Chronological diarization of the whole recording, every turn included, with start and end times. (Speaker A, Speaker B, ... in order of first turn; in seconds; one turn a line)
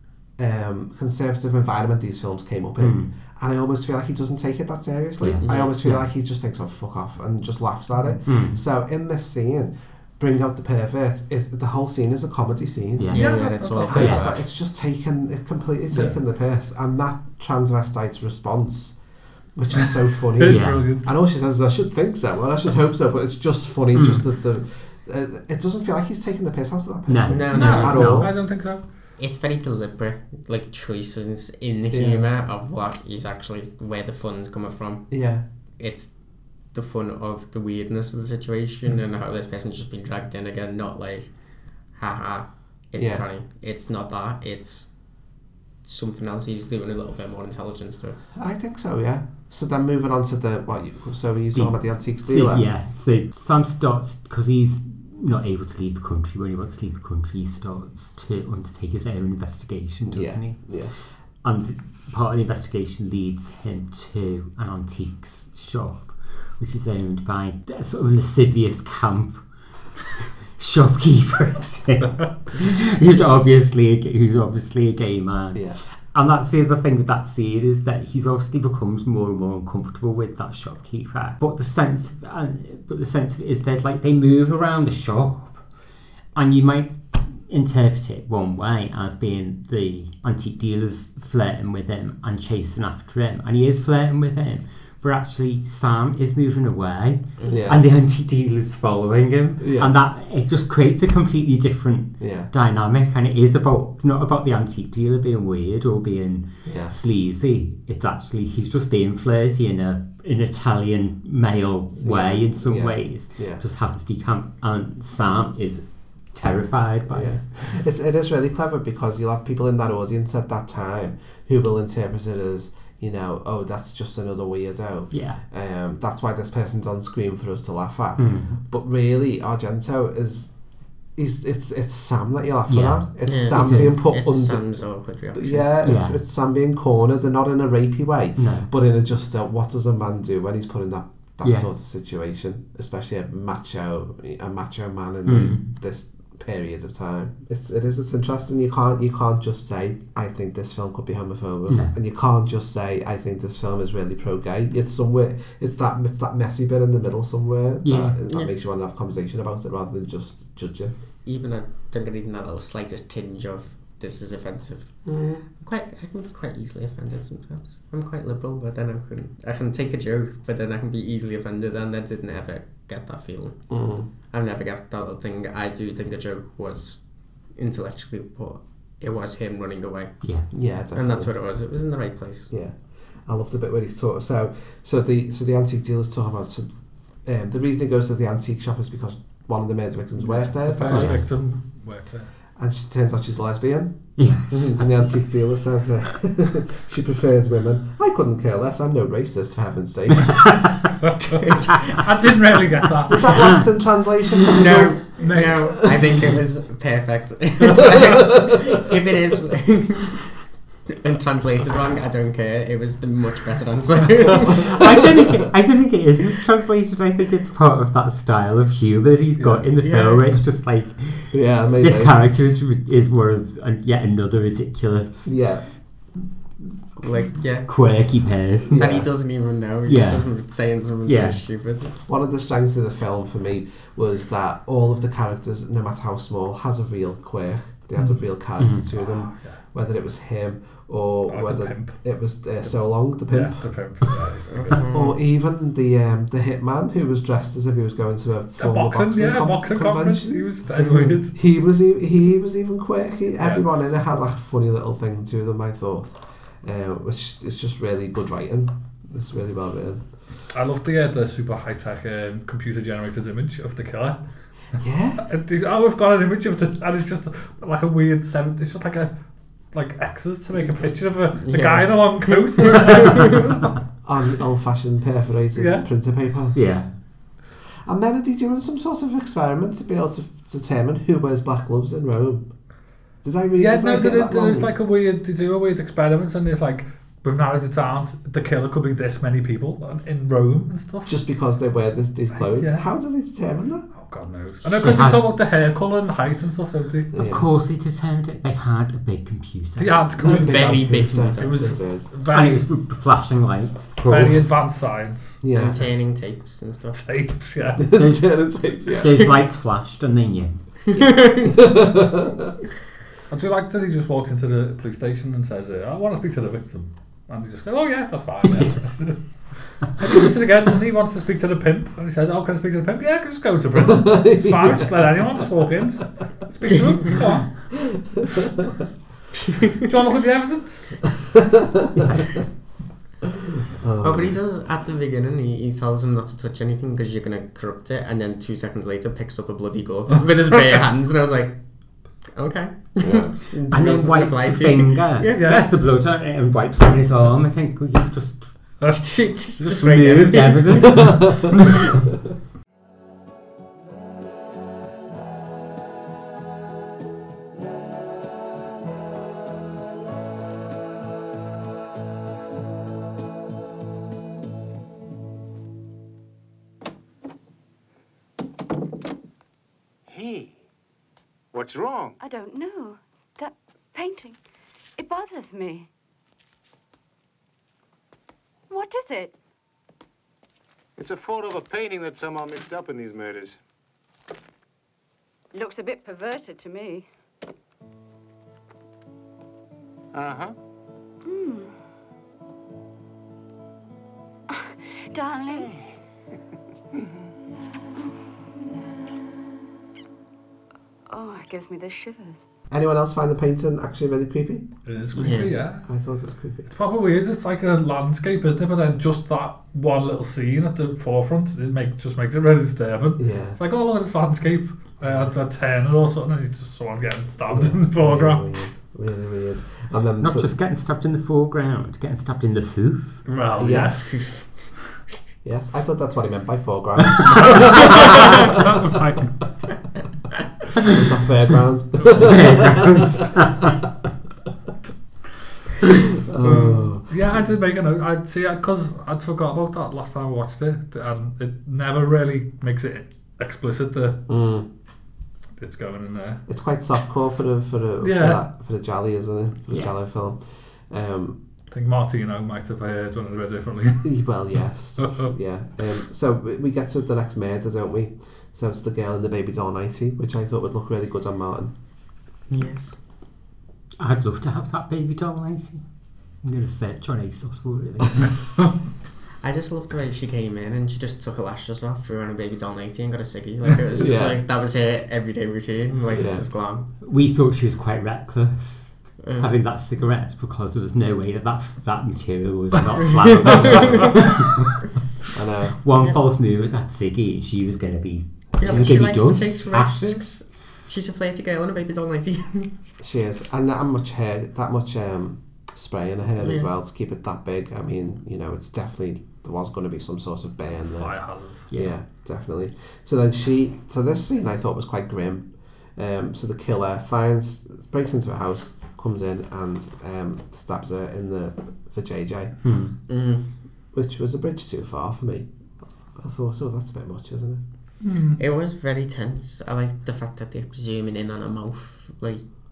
Speaker A: 0.4-19.0
Speaker B: 2.8-3.1
Speaker B: 5.2-6.0
Speaker C: 5.4-5.8
Speaker B: 8.2-8.6
Speaker B: 13.0-13.3
Speaker C: 13.1-14.3
Speaker D: 13.2-14.3
Speaker B: 13.9-14.3
Speaker A: 19.6-28.3
Speaker D: 19.8-21.1
Speaker B: 20.5-20.9
Speaker B: 23.9-24.2
Speaker B: 27.1-28.3
Speaker C: 27.3-28.4
Speaker D: 27.5-28.8
Speaker C: 29.2-35.1
Speaker A: 31.9-32.3
Speaker A: 35.1-35.4
Speaker C: 35.8-41.3
Speaker C: 41.9-44.9
Speaker A: 43.0-43.2
Speaker C: 45.8-48.2
Speaker A: 48.4-52.7
Speaker B: 51.5-60.9
Speaker A: 60.1-60.9
Speaker B: 61.4-69.5
Speaker B: 70.2-85.6
Speaker A: 75.5-75.8
Speaker B: 86.3-117.7
Speaker A: 97.5-97.8
Speaker A: 99.6-100.0
Speaker A: 102.2-102.5
Speaker A: 106.7-107.0
Speaker A: 112.0-113.6
Speaker A: 117.1-130.5
Speaker B: 125.1-125.4
Speaker B: 128.2-128.6
Speaker A: 131.2-134.7
Speaker B: 132.7-134.0
Speaker C: 133.3-135.7
Speaker A: 135.3-160.9
Speaker B: 135.8-136.2
Speaker B: 138.4-138.7
Speaker B: 141.4-141.7
Speaker B: 145.3-145.7
Speaker B: 151.7-151.9
Speaker B: 157.8-158.2
Speaker C: 161.2-173.6
Speaker A: 165.1-165.4
Speaker A: 173.7-174.1
Speaker C: 174.3-177.0
Speaker C: 177.5-180.3
Speaker B: 180.2-180.5
Speaker A: 180.5-181.3
Speaker C: 180.9-182.5
Speaker A: 182.5-191.3
Speaker D: 190.3-192.3
Speaker B: 190.9-191.2
Speaker A: 192.6-194.1
Speaker B: 194.2-194.8
Speaker C: 194.5-194.8
Speaker A: 194.8-200.5
Speaker C: 201.4-201.8
Speaker D: 202.0-203.6
Speaker A: 203.1-206.2
Speaker C: 204.5-210.2
Speaker D: 205.2-205.9
Speaker A: 207.8-208.4
Speaker C: 210.9-214.8
Speaker A: 214.5-215.0
Speaker B: 214.5-225.4
Speaker C: 219.8-220.2
Speaker A: 221.3-222.2
Speaker A: 225.2-225.7
Speaker C: 227.0-227.7
Speaker B: 227.6-229.1
Speaker A: 228.7-229.1
Speaker C: 228.8-231.9
Speaker B: 229.9-230.3
Speaker B: 231.1-231.4
Speaker A: 232.1-243.7
Speaker B: 238.6-238.9
Speaker D: 238.9-239.6
Speaker D: 241.3-242.0
Speaker D: 243.3-244.9
Speaker C: 244.5-245.2
Speaker A: 244.9-250.7
Speaker D: 248.6-251.3
Speaker C: 250.8-251.1
Speaker A: 251.3-260.0
Speaker D: 260.5-264.2
Speaker A: 264.8-265.2
Speaker D: 265.2-269.1
Speaker D: 269.7-273.8
Speaker C: 271.4-273.2
Speaker A: 274.0-276.7
Speaker D: 275.6-275.9
Speaker B: 276.6-276.9
Speaker A: 277.9-282.5
Speaker A: 283.2-284.7
Speaker D: 283.6-291.2
Speaker A: 291.1-293.9
Speaker D: 292.4-292.9
Speaker D: 294.0-297.1
Speaker B: 294.8-295.2
Speaker A: 297.1-297.5
Speaker B: 297.2-300.2
Speaker D: 299.8-302.6
Speaker A: 300.2-302.1
Speaker C: 300.2-301.7
Speaker B: 302.3-304.5
Speaker D: 304.1-305.4
Speaker A: 305.4-305.9
Speaker C: 305.5-307.0
Speaker D: 306.9-307.9
Speaker A: 307.8-309.4
Speaker B: 307.9-308.4
Speaker B: 309.0-310.6
Speaker C: 310.9-311.5
Speaker A: 311.0-312.5
Speaker D: 313.3-319.2
Speaker D: 320.0-327.7
Speaker A: 323.8-325.1
Speaker A: 328.2-328.5
Speaker D: 329.8-331.1
Speaker A: 331.6-331.9
Speaker A: 333.8-334.4
Speaker C: 334.0-341.6
Speaker C: 342.3-345.5
Speaker A: 343.0-343.4
Speaker B: 343.7-348.5
Speaker D: 345.4-345.7
Speaker C: 348.9-351.0
Speaker B: 349.6-351.6
Speaker A: 350.8-351.5
Speaker E: 370.1-370.5
Speaker E: 371.5-372.2
Speaker F: 372.2-374.4
Speaker F: 375.0-375.9
Speaker F: 378.7-379.4
Speaker E: 381.0-383.6
Speaker F: 385.5-387.1
Speaker E: 390.1-390.6
Speaker F: 391.2-391.7
Speaker F: 394.5-395.8
Speaker F: 401.1-402.4
Speaker A: 402.7-404.7
Speaker D: 404.9-405.9
Speaker C: 405.2-405.5
Speaker A: 405.3-406.7
Speaker D: 406.7-418.4
Speaker A: 413.2-413.6
Speaker A: 415.0-415.3
Speaker A: 417.5-420.5
Speaker B: 420.2-423.2
Speaker D: 423.3-424.3
Speaker A: 423.6-424.0
Speaker C: 423.7-424.5
Speaker A: 425.4-428.8
Speaker D: 427.3-429.3
Speaker A: 430.8-433.2
Speaker B: 432.1-433.8
Speaker A: 436.2-437.4
Speaker D: 436.4-444.2
Speaker A: 444.3-444.7
Speaker D: 445.6-446.4
Speaker A: 446.5-451.4
Speaker D: 448.0-448.4
Speaker D: 451.7-454.1
Speaker A: 454.0-461.7
Speaker D: 455.0-455.3
Speaker C: 462.5-463.0
Speaker B: 464.0-465.8
Speaker B: 466.4-468.5
Speaker C: 469.4-476.9
Speaker A: 474.0-474.4
Speaker A: 476.1-476.4
Speaker B: 477.0-484.9
Speaker C: 479.2-479.5
Speaker A: 485.3-485.8
Speaker B: 485.8-490.3
Speaker C: 488.6-492.7
Speaker A: 488.6-489.0
Speaker A: 493.0-512.5
Speaker C: 496.4-496.7
Speaker D: 500.9-501.7
Speaker B: 512.6-513.0
Speaker C: 513.1-513.5
Speaker A: 513.9-515.5
Speaker A: 516.1-517.6
Speaker D: 518.0-518.4
Speaker C: 518.4-522.5